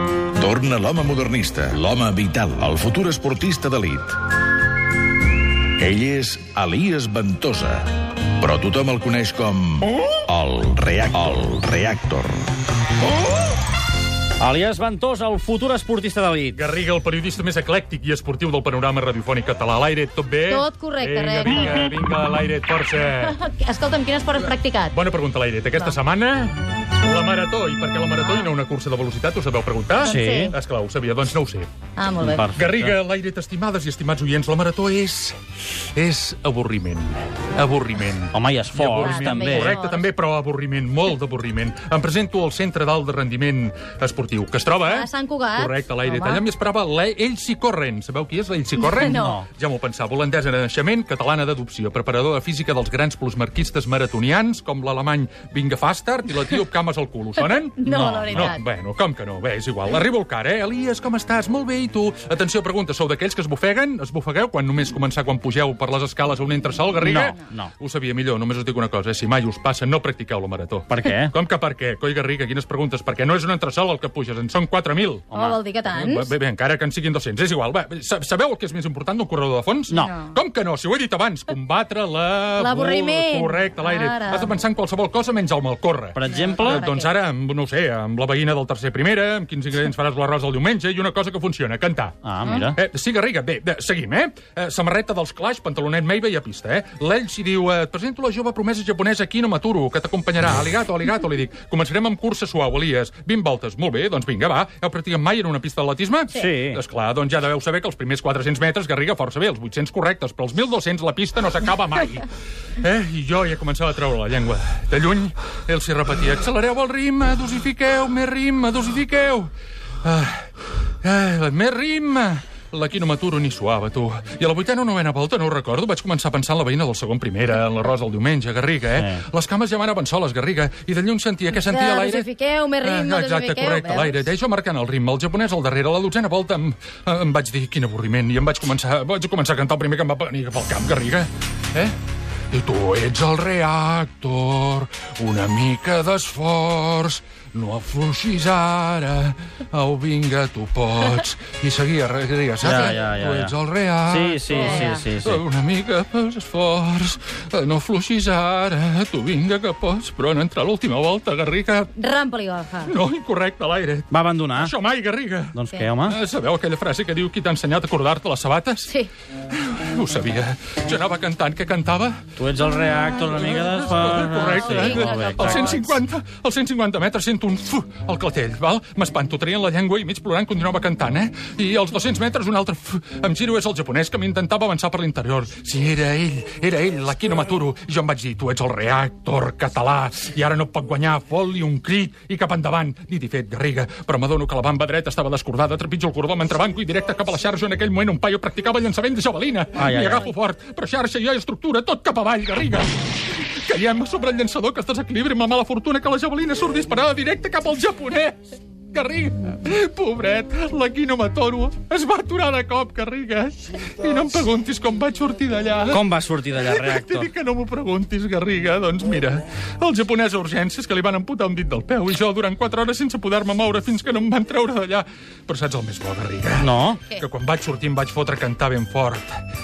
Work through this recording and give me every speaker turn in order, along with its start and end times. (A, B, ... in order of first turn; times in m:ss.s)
0:00.4-0:04.2 A
0:05.8-0:12.4 A
0:14.4-0:16.6 B
0:16.5-0:23.4 C
0:20.5-0:21.9 D
0:23.1-0:25.0 D
0:24.9-0:31.8 C
0:30.0-0:30.6 D
0:30.0-0:30.5 B
0:32.0-0:32.5 D
0:32.2-0:33.0 B
0:32.5-1:15.3 C
0:38.3-0:39.8 B
0:39.0-0:40.1 D
0:44.7-0:46.4 D
0:48.8-0:49.4 D
0:49.1-0:49.5 B
0:57.4-0:58.6 D
1:07.0-1:07.7 B
1:10.9-1:11.3 B
1:15.3-1:15.6 B
1:15.3-1:16.3 D
1:15.9-1:59.5 C
1:20.0-1:20.4 D
1:22.6-1:24.5 D
1:26.1-1:26.8 B
1:26.3-1:27.1 D
1:32.2-1:32.8 B
1:32.4-1:32.7 D
1:46.3-1:46.8 B
2:00.0-2:00.5 C
2:01.0-2:12.3 C
2:08.9-2:09.2 B
2:11.6-2:14.3 D
2:12.8-2:21.9 C
2:22.5-2:42.0 C
2:32.6-2:33.5 B
2:34.1-2:35.4 B
2:34.5-2:35.0 D
2:42.0-2:43.0 D
2:42.8-2:49.0 C
2:44.1-2:44.7 B
2:45.5-2:46.2 B
2:49.5-2:52.3 C
2:52.4-2:55.8 B
2:53.0-3:36.0 C
2:54.4-2:56.0 D
3:19.8-3:20.3 B
3:35.9-3:37.3 B
3:36.6-3:49.4 C
3:46.6-3:47.0 B